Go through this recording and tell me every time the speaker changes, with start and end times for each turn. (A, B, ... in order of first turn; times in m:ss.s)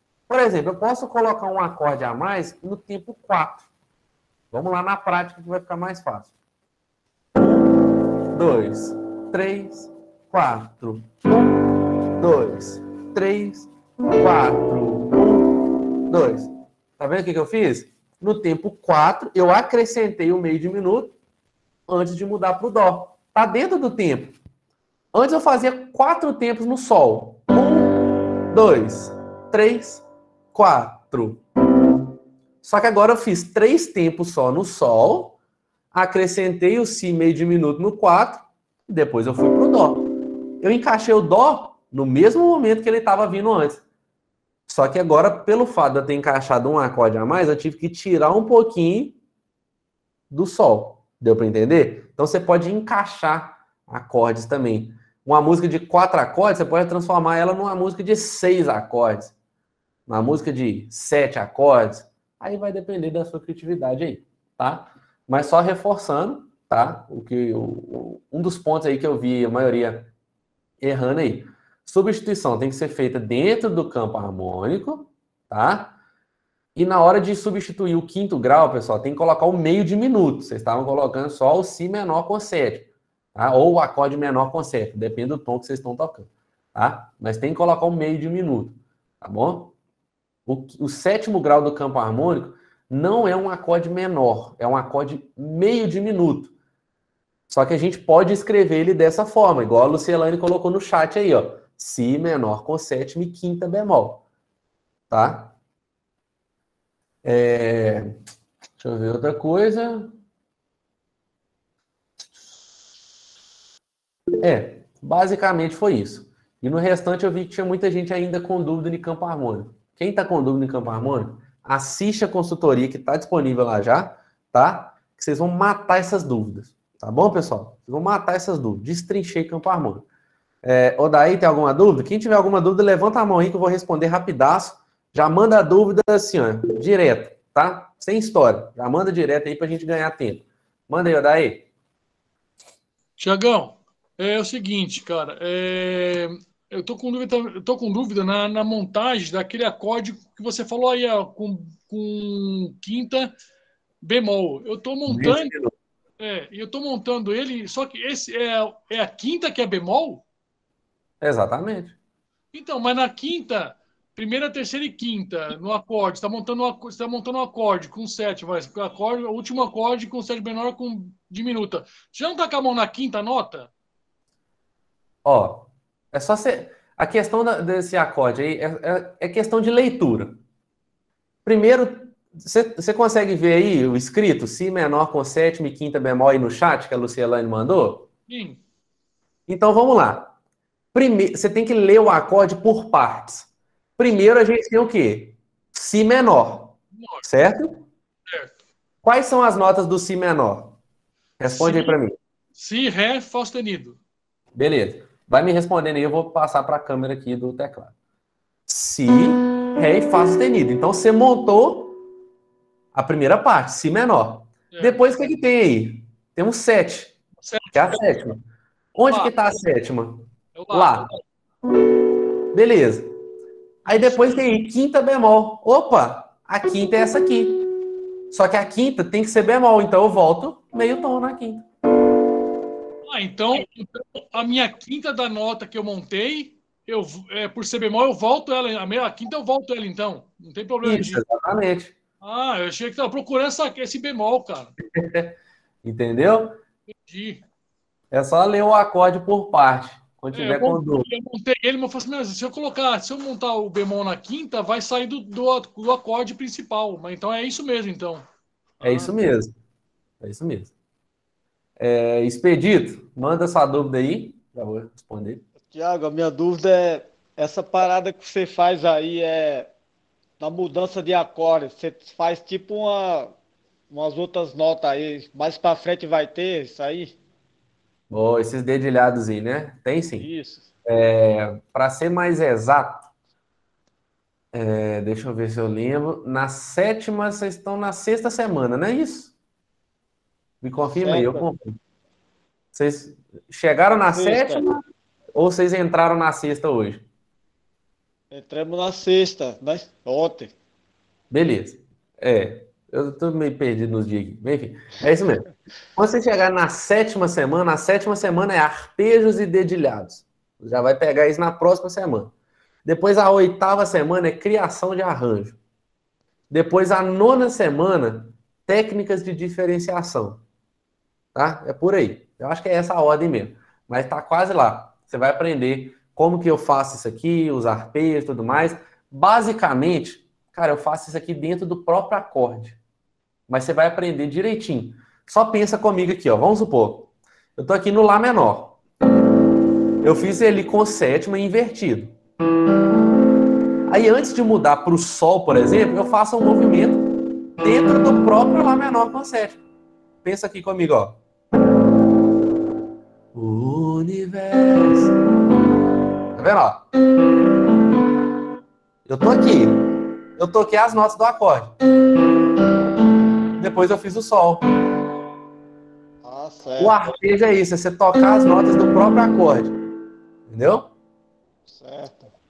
0:00.3-0:03.7 A
0:04.5-0:06.3 A
0:07.3-0:07.7 A
0:08.3-0:11.6 A
0:12.2-0:15.5 A
0:16.1-0:21.1 A
0:21.9-0:24.4 A
0:25.1-0:28.0 A
0:28.5-0:31.4 A
0:32.6-0:35.4 A
0:35.9-0:40.1 A
0:40.6-0:43.8 A
0:44.7-0:49.2 A
0:50.3-0:59.3 A
1:00.1-1:10.1 A
1:10.8-1:16.0 A
1:16.7-1:29.7 A
1:30.4-1:36.5 A
1:37.5-1:44.2 A
1:45.1-1:45.5 A
1:47.2-1:48.1 A
1:48.8-1:50.1 A
1:54.4-2:10.0 A
2:10.6-2:21.6 A
2:23.2-2:33.4 B
2:34.0-2:35.5 B
2:35.1-2:35.7 A
2:36.2-2:40.2 B
2:41.2-2:42.0 A
2:42.5-2:53.7 B
2:55.2-3:00.4 A
3:01.4-3:08.1 A
3:08.3-3:08.6 B
3:09.5-3:10.3 A
3:10.9-3:17.8 A
3:16.9-3:17.2 B
3:18.2-3:18.5 B
3:19.0-3:20.8 A
3:21.4-3:22.2 A
3:21.5-3:22.0 B
3:22.5-3:24.0 B
3:24.5-3:27.9 A
3:28.7-3:32.0 A
3:32.9-3:37.2 A
3:34.7-3:35.1 B
3:37.4-3:38.1 B
3:37.7-3:38.4 A
3:38.9-3:41.1 A
3:39.1-3:39.4 B
3:40.5-3:41.2 B
3:42.5-3:43.1 A
3:43.8-3:47.6 A
3:43.8-3:44.5 B
3:48.3-3:51.6 A
3:53.0-4:01.2 B
4:00.8-4:01.9 A
4:02.2-4:04.7 B
4:04.8-4:06.6 A
4:06.9-4:07.4 B
4:08.1-4:11.1 A
4:10.3-4:18.3 B
4:18.8-4:19.2 B
4:18.8-4:19.5 A
4:20.2-4:20.7 A
4:21.8-4:25.4 A
4:25.7-4:29.7 C
4:30.4-4:33.4 C
4:33.9-4:37.2 C
4:38.1-4:40.3 A
4:40.2-4:40.7 C
4:40.8-4:43.1 A
4:44.5-4:49.3 A
4:50.6-4:51.8 A
4:51.0-4:51.5 C
4:52.7-4:54.8 A
4:54.1-4:54.6 C
4:55.3-4:57.0 A
4:58.3-5:00.5 C
5:01.3-5:12.3 A
5:12.8-5:15.6 A
5:16.5-5:20.4 A
5:21.3-5:32.8 A
5:33.5-5:38.8 A
5:40.0-5:42.1 A
5:43.9-5:47.0 A
5:47.6-5:49.6 A
5:50.2-5:51.2 A
5:53.3-5:55.1 A
5:56.3-5:56.8 A
5:59.1-6:01.7 A
6:03.6-6:04.6 A
6:06.2-6:07.1 C
6:06.8-6:09.8 A
6:10.5-6:10.9 A
6:11.7-6:12.3 C